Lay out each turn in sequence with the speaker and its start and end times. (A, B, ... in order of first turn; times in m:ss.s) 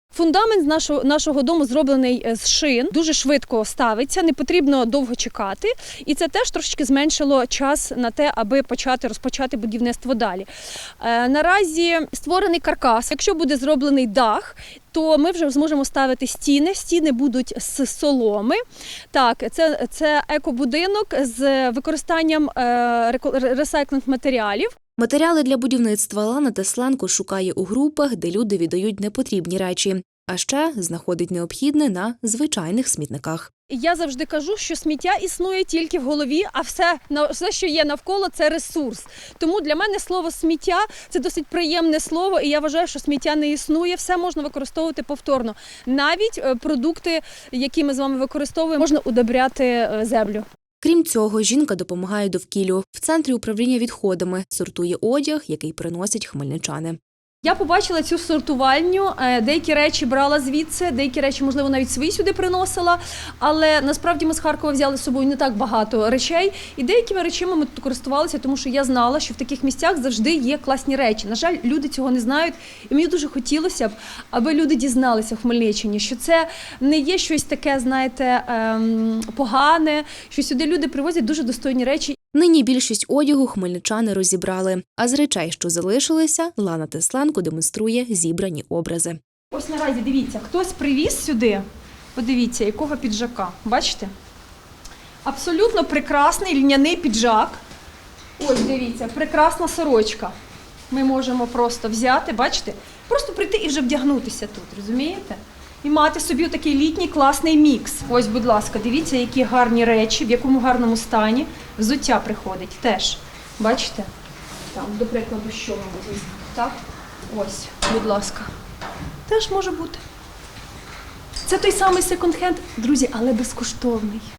0:00.1-0:10.5 A
0:11.0-0:18.6 A
0:19.1-0:24.8 A
0:25.0-0:33.5 B
0:33.7-0:50.4 A
0:50.8-0:57.0 B
0:57.4-1:22.2 A
1:22.3-1:29.2 B
1:29.5-1:34.1 A
1:35.2-1:37.6 A
1:38.4-1:40.3 A
1:40.9-1:54.1 A
1:54.7-1:56.8 A
1:57.3-1:58.5 A
1:59.3-2:00.0 A
2:01.4-2:04.3 A